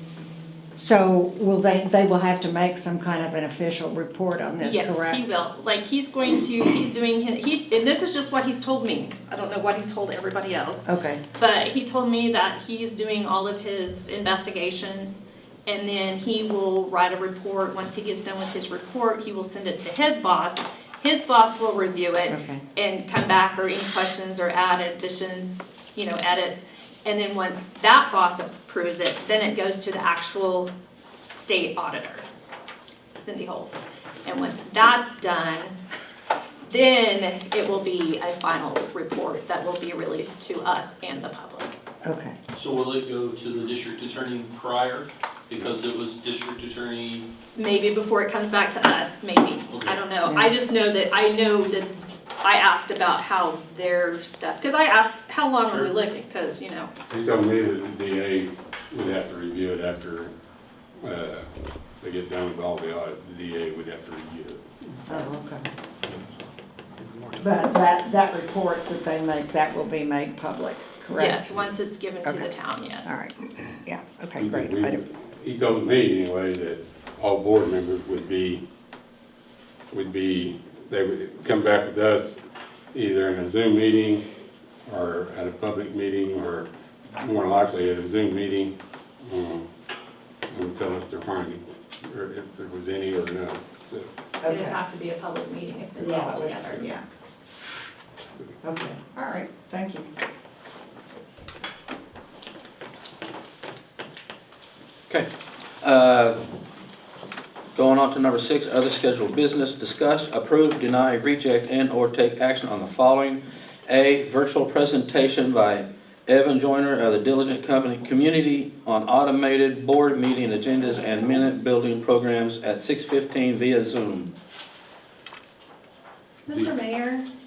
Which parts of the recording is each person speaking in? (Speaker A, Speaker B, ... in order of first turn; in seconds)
Speaker A: 0.8-5.2, 10.9-11.2, 22.3-22.6, 42.0-42.4, 50.3-50.5, 65.1-65.7, 67.4-71.7, 73.0-75.0, 94.4-94.8, 96.0-97.0, 98.6-100.1
Speaker B: 4.6-30.7, 31.3-32.3, 33.1-35.8, 36.6-41.8, 47.5-56.9, 71.2-73.1, 94.5-96.8, 126.5-127.3
Speaker C: 42.5-47.3, 49.7-50.0
Speaker D: 57.1-60.3, 61.0-61.5, 62.0-64.7, 67.0-67.5, 74.4-78.6, 79.9-82.4, 82.9-84.2, 84.9-89.7, 90.5-94.1
Speaker E: 105.8-106.4, 107.8-124.3